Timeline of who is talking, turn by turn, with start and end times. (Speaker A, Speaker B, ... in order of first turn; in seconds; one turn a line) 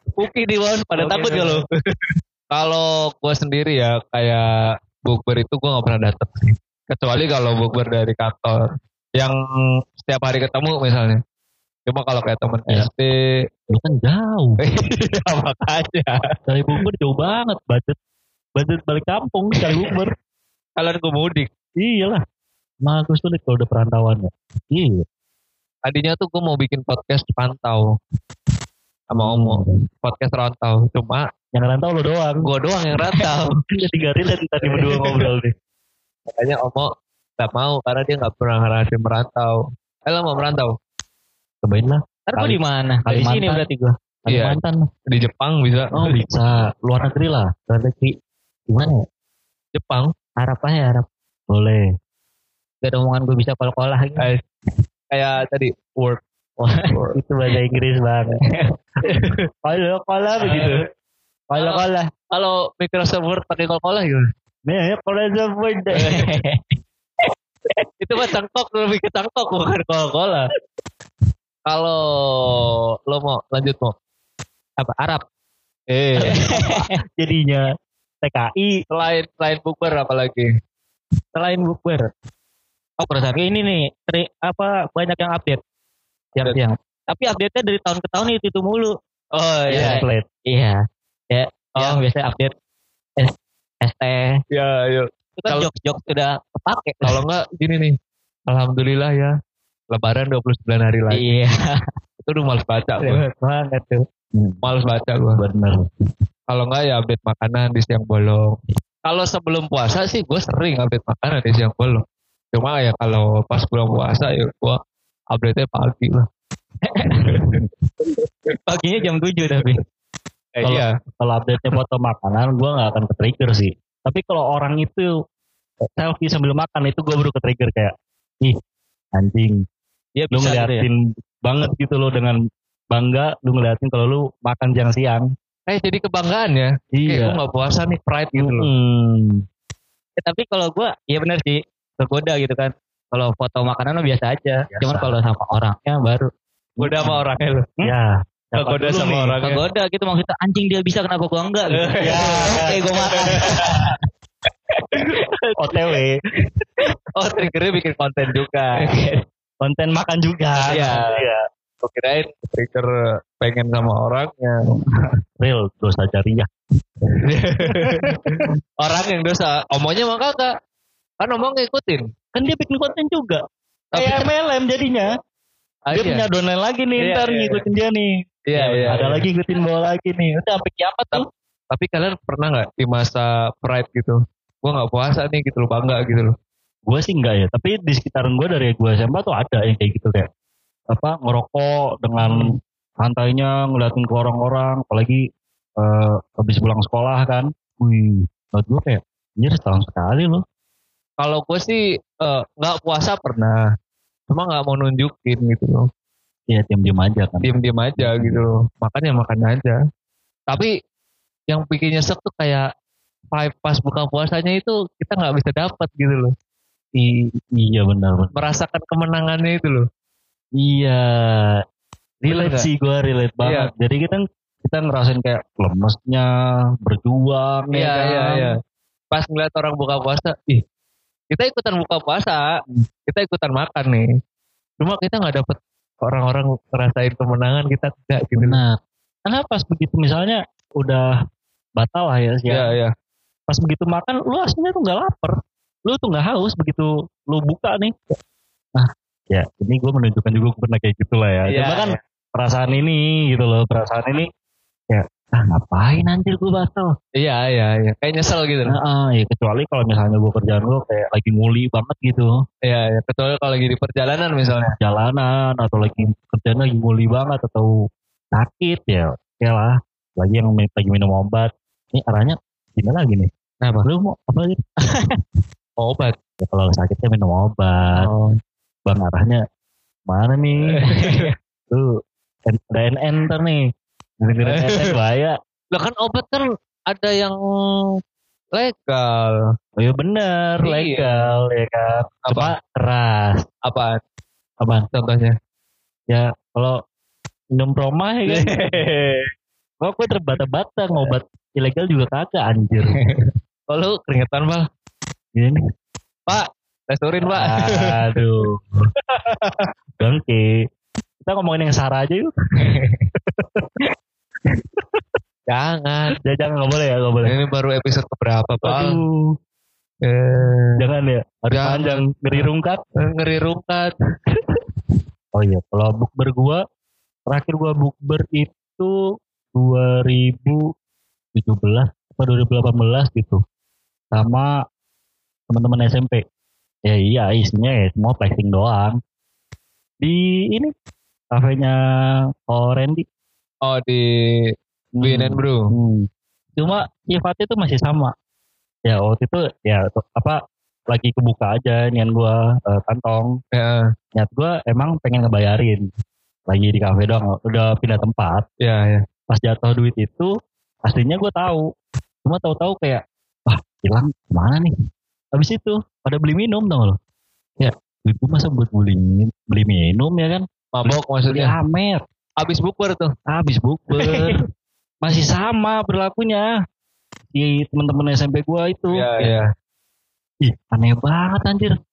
Speaker A: 0.2-9.3
Speaker B: 1.0-1.6
Speaker A: 10.0-11.2
Speaker A: 11.8-13.1
Speaker C: 13.7-14.6
Speaker A: 14.6-16.2
Speaker C: 16.5-17.9
Speaker C: 18.6-20.1
Speaker A: 20.8-21.5
Speaker C: 21.8-22.2
Speaker C: 22.8-25.0
Speaker A: 25.8-27.9
Speaker A: 29.1-31.3
Speaker C: 29.2-29.8
Speaker C: 31.5-32.5
Speaker A: 32.4-33.6
Speaker C: 33.7-35.5
Speaker A: 34.9-35.2
Speaker A: 36.3-40.8
Speaker C: 41.6-43.7
Speaker B: 42.3-44.7
Speaker A: 44.3-46.1
Speaker C: 45.9-47.5
Speaker B: 47.7-48.1
Speaker B: 48.7-49.0
Speaker A: 49.7-50.1
Speaker B: 50.4-51.0
Speaker C: 51.5-51.8
Speaker B: 52.8-54.3
Speaker A: 55.1-56.2
Speaker B: 56.6-56.9
Speaker A: 56.9-57.2
Speaker C: 57.1-58.4
Speaker A: 59.1-59.4
Speaker C: 59.6-60.8
Speaker A: 60.4-60.7
Speaker C: 61.5-62.1
Speaker A: 61.5-64.2
Speaker C: 64.7-66.2
Speaker A: 66.0-66.2
Speaker B: 66.1-66.6
Speaker A: 68.0-70.5
Speaker A: 71.7-73.9
Speaker B: 74.8-75.2
Speaker A: 75.9-76.7
Speaker B: 76.2-77.0
Speaker C: 77.2-77.6
Speaker C: 78.2-78.7
Speaker A: 78.9-80.5
Speaker B: 81.3-82.1
Speaker B: 83.0-85.6
Speaker B: 86.3-88.9
Speaker A: 89.3-90.0
Speaker B: 89.7-90.8
Speaker C: 89.7-90.2
Speaker B: 91.3-92.5
Speaker B: 93.2-94.4
Speaker A: 94.5-95.6
Speaker B: 95.4-97.2
Speaker A: 97.0-97.9
Speaker A: 98.5-99.3
Speaker A: 99.9-101.2
Speaker B: 101.1-101.7
Speaker A: 102.2-103.2
Speaker B: 103.0-104.0
Speaker C: 104.3-104.6
Speaker A: 104.6-105.4
Speaker C: 105.4-105.8
Speaker A: 106.5-112.0
Speaker A: 112.5-114.8
Speaker A: 115.3-116.3
Speaker B: 116.8-117.6
Speaker A: 117.2-117.6
Speaker B: 118.7-119.8
Speaker A: 120.5-120.9
Speaker C: 120.6-125.1
Speaker C: 125.8-128.6
Speaker C: 129.2-129.6
Speaker B: 130.2-130.9
Speaker C: 130.3-132.4
Speaker C: 132.9-135.3
Speaker A: 135.7-138.7
Speaker C: 136.9-137.4
Speaker C: 138.3-139.3
Speaker B: 140.2-146.3
Speaker C: 144.7-145.1
Speaker A: 146.8-147.7
Speaker C: 146.8-147.2
Speaker C: 147.8-149.3
Speaker A: 148.6-149.6
Speaker B: 149.4-154.0
Speaker A: 151.7-152.4
Speaker C: 152.0-152.8
Speaker A: 153.1-153.8
Speaker B: 154.9-155.2
Speaker A: 155.0-155.7
Speaker C: 155.6-156.2
Speaker A: 157.2-158.8
Speaker B: 158.8-159.2
Speaker C: 159.6-161.4
Speaker A: 160.7-161.0
Speaker B: 160.7-161.2
Speaker A: 161.8-164.7
Speaker C: 165.4-166.5
Speaker C: 167.0-168.5
Speaker A: 167.2-170.5
Speaker A: 171.2-172.1
Speaker C: 172.3-173.4
Speaker A: 173.9-174.3
Speaker C: 173.9-175.1
Speaker A: 175.9-176.2
Speaker C: 175.9-181.2
Speaker A: 177.0-177.6
Speaker A: 178.5-179.2
Speaker A: 181.1-186.3
Speaker C: 186.9-190.3
Speaker C: 190.9-195.2
Speaker C: 195.8-200.4
Speaker A: 201.2-203.6
Speaker A: 204.3-205.9
Speaker C: 206.5-208.4
Speaker A: 207.4-209.8
Speaker A: 211.5-212.6
Speaker A: 213.3-216.3
Speaker C: 216.9-218.3
Speaker A: 218.3-219.8
Speaker C: 220.6-221.6
Speaker C: 222.2-226.3
Speaker A: 222.3-222.7
Speaker A: 223.4-223.7
Speaker C: 226.8-228.5
Speaker A: 227.7-228.6
Speaker A: 229.1-230.6
Speaker A: 231.3-232.4
Speaker A: 233.1-234.1
Speaker A: 234.8-238.6
Speaker C: 238.3-241.1
Speaker C: 241.8-242.7
Speaker A: 242.5-242.9
Speaker C: 243.5-248.2
Speaker C: 248.7-254.3
Speaker A: 251.5-251.9
Speaker C: 254.9-256.9
Speaker A: 257.2-258.8
Speaker C: 258.6-262.3
Speaker A: 262.6-264.7
Speaker C: 264.8-267.7
Speaker C: 268.3-273.3
Speaker B: 273.6-273.9
Speaker C: 273.8-274.6
Speaker A: 275.8-276.1
Speaker C: 276.4-278.0
Speaker B: 277.9-278.3
Speaker C: 278.9-279.4
Speaker C: 280.1-280.8
Speaker A: 280.6-281.3
Speaker B: 280.9-281.3
Speaker C: 282.5-283.6
Speaker C: 284.2-285.3
Speaker A: 284.5-284.9
Speaker A: 285.7-287.4
Speaker A: 288.5-289.4
Speaker C: 289.8-293.4
Speaker A: 290.6-291.3
Speaker A: 293.6-294.0
Speaker C: 294.6-294.9
Speaker A: 294.9-295.3
Speaker C: 296.1-296.8
Speaker C: 297.5-298.8
Speaker A: 298.3-299.3
Speaker C: 299.8-303.0
Speaker B: 302.9-303.2
Speaker A: 303.7-304.6
Speaker A: 306.3-308.2
Speaker C: 307.3-308.9
Speaker A: 309.1-309.7
Speaker C: 310.0-310.4
Speaker C: 311.2-313.7
Speaker C: 314.5-315.2
Speaker A: 315.5-316.2
Speaker C: 316.2-317.3
Speaker A: 317.2-319.0
Speaker C: 318.6-319.3
Speaker A: 320.0-320.8
Speaker C: 320.8-322.8
Speaker A: 321.5-323.9
Speaker C: 325.3-326.6
Speaker C: 327.3-328.9
Speaker C: 329.5-330.6
Speaker C: 331.3-333.4
Speaker C: 334.1-334.5
Speaker C: 335.5-336.2
Speaker C: 336.9-339.0
Speaker C: 340.0-340.7
Speaker C: 341.3-341.8
Speaker C: 342.5-343.0
Speaker A: 343.6-344.0
Speaker C: 344.9-348.1
Speaker A: 345.0-345.6
Speaker C: 348.9-350.4
Speaker C: 350.9-353.3
Speaker A: 353.5-353.8
Speaker C: 354.1-355.8
Speaker C: 356.5-358.4
Speaker A: 358.6-359.0
Speaker C: 359.3-360.3
Speaker C: 360.9-361.6
Speaker C: 362.2-364.7
Speaker C: 365.3-367.0
Speaker C: 367.6-372.0
Speaker A: 370.7-371.5
Speaker A: 372.4-373.1
Speaker C: 373.3-374.4
Speaker C: 375.0-376.5
Speaker C: 377.3-379.3
Speaker A: 378.9-379.5
Speaker C: 380.4-381.7